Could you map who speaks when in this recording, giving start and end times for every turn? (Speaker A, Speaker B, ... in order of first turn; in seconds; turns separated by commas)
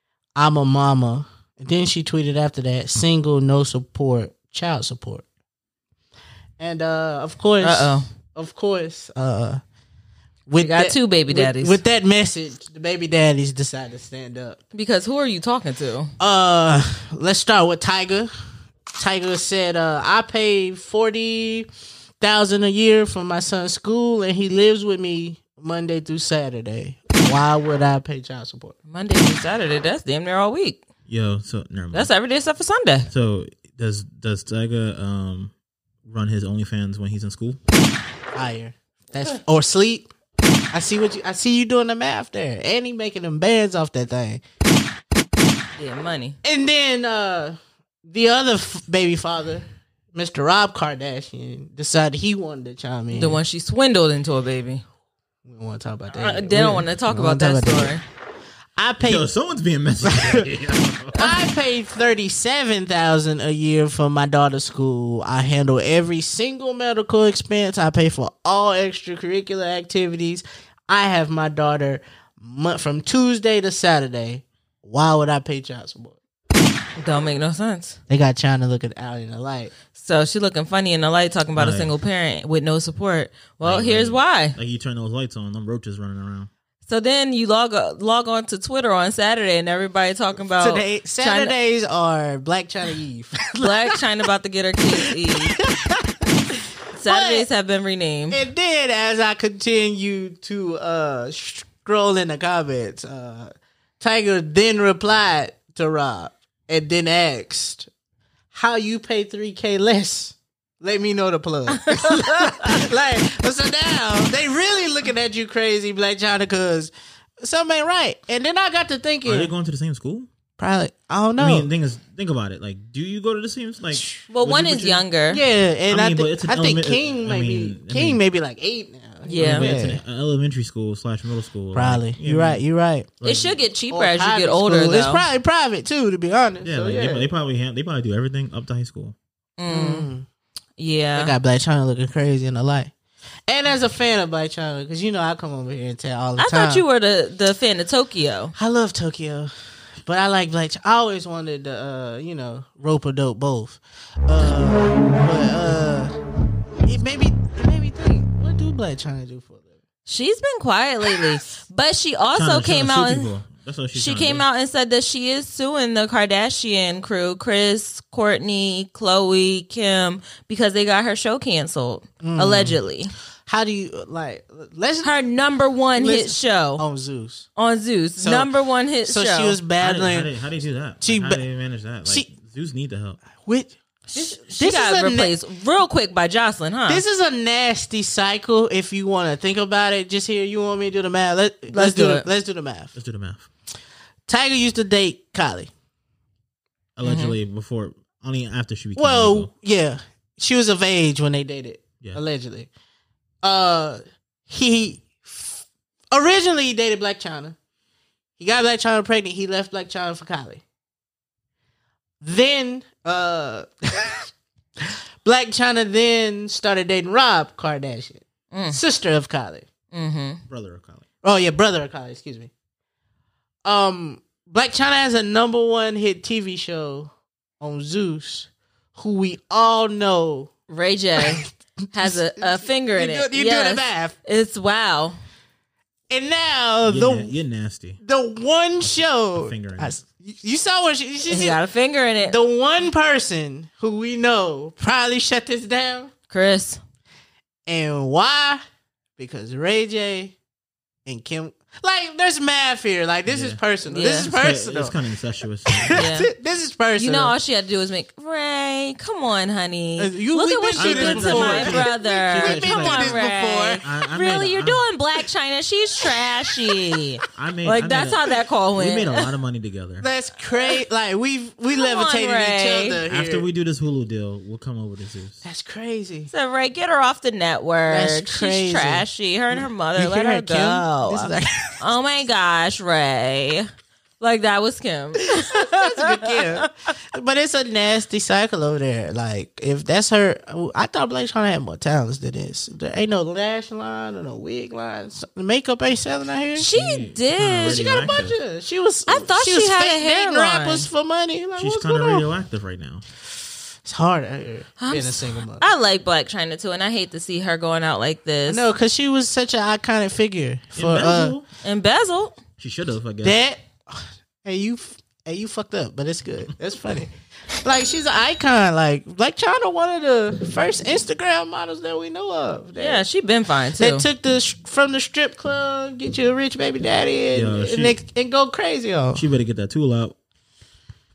Speaker A: 0.3-5.2, Speaker A: 6.6-9.6, Speaker B: 7.6-8.1, Speaker A: 10.5-14.6, Speaker B: 10.6-11.8, Speaker B: 14.7-16.1, Speaker A: 16.2-18.3, Speaker A: 18.9-21.7, Speaker A: 22.2-28.7, Speaker B: 28.9-30.8, Speaker C: 31.1-32.1, Speaker B: 31.9-33.1, Speaker C: 33.1-35.5, Speaker C: 36.0-37.6, Speaker A: 38.3-40.1, Speaker A: 40.7-44.4, Speaker B: 45.8-46.4, Speaker A: 46.4-53.4, Speaker B: 53.1-54.8, Speaker A: 55.5-58.0, Speaker B: 56.2-58.0, Speaker C: 56.5-56.8, Speaker A: 58.8-59.3, Speaker C: 59.0-61.4, Speaker A: 60.0-60.5, Speaker A: 61.1-76.2, Speaker B: 77.0-78.0, Speaker A: 78.1-79.7, Speaker B: 79.9-84.5, Speaker C: 81.5-81.9, Speaker C: 83.6-86.5, Speaker B: 86.8-91.5, Speaker A: 90.6-93.9, Speaker B: 93.6-95.6, Speaker A: 95.0-96.2, Speaker B: 97.0-98.4, Speaker A: 97.0-97.5, Speaker A: 98.3-107.9, Speaker A: 108.5-119.5, Speaker B: 111.9-112.7, Speaker C: 119.2-120.3, Speaker A: 120.6-121.7, Speaker C: 121.4-125.0, Speaker A: 123.9-124.2, Speaker B: 124.3-125.4, Speaker A: 125.3-130.0, Speaker C: 125.9-128.2, Speaker B: 129.2-129.7, Speaker C: 129.4-132.6, Speaker A: 131.7-133.1, Speaker C: 133.2-133.6, Speaker B: 133.2-135.3, Speaker A: 133.9-137.2, Speaker C: 136.6-139.1, Speaker B: 139.6-140.1, Speaker A: 139.7-140.3, Speaker B: 140.8-141.3, Speaker A: 141.1-142.9, Speaker A: 143.5-146.8, Speaker B: 146.4-148.5, Speaker A: 148.6-156.2, Speaker A: 156.8-159.6, Speaker B: 160.1-163.3, Speaker C: 162.3-164.4, Speaker B: 163.9-173.1, Speaker A: 172.2-172.8, Speaker A: 173.5-175.1, Speaker B: 175.0-176.8, Speaker A: 176.0-177.5, Speaker B: 177.6-179.6, Speaker A: 178.2-178.5, Speaker A: 179.0-180.3, Speaker C: 179.8-183.2, Speaker A: 181.0-181.4, Speaker A: 183.4-185.3, Speaker B: 184.1-187.0, Speaker A: 186.9-192.9, Speaker B: 191.7-192.2, Speaker C: 192.9-193.5, Speaker A: 194.3-195.7, Speaker C: 197.0-199.5, Speaker B: 197.0-197.3, Speaker A: 198.9-202.7, Speaker A: 203.4-207.6, Speaker A: 208.4-210.6, Speaker A: 212.2-214.3, Speaker A: 214.8-219.7, Speaker B: 218.5-218.8, Speaker B: 219.9-220.4, Speaker C: 220.5-221.0, Speaker A: 221.2-222.5, Speaker A: 223.6-230.5, Speaker B: 230.7-235.2, Speaker A: 232.0-234.1, Speaker A: 236.1-237.3, Speaker C: 236.8-238.0, Speaker A: 238.0-241.6, Speaker C: 239.3-240.0, Speaker B: 241.3-242.3, Speaker A: 242.2-246.1, Speaker B: 246.3-246.8, Speaker A: 247.7-248.6, Speaker A: 249.2-250.3, Speaker A: 251.1-254.9, Speaker C: 253.3-253.6, Speaker B: 253.9-254.3, Speaker C: 254.3-256.0, Speaker A: 255.7-257.3, Speaker B: 255.9-256.3, Speaker B: 257.0-269.2, Speaker A: 260.0-263.8, Speaker C: 260.8-263.2, Speaker C: 263.8-264.8, Speaker C: 267.3-268.2, Speaker C: 268.7-270.1, Speaker A: 270.0-273.4, Speaker B: 271.7-273.0, Speaker C: 273.1-275.4, Speaker A: 275.4-276.3, Speaker B: 276.3-283.7, Speaker A: 277.9-281.8, Speaker B: 284.2-286.6, Speaker A: 285.3-296.7, Speaker B: 296.6-298.1, Speaker C: 296.7-298.4, Speaker A: 297.6-302.3, Speaker B: 299.1-300.9, Speaker C: 301.6-303.0, Speaker A: 303.8-305.6, Speaker B: 304.8-308.6, Speaker A: 308.5-311.3, Speaker C: 310.8-311.4, Speaker B: 311.6-312.4, Speaker C: 312.6-313.4, Speaker A: 313.2-323.0, Speaker B: 322.8-324.1, Speaker A: 323.8-329.2, Speaker C: 327.3-328.0, Speaker C: 329.1-330.1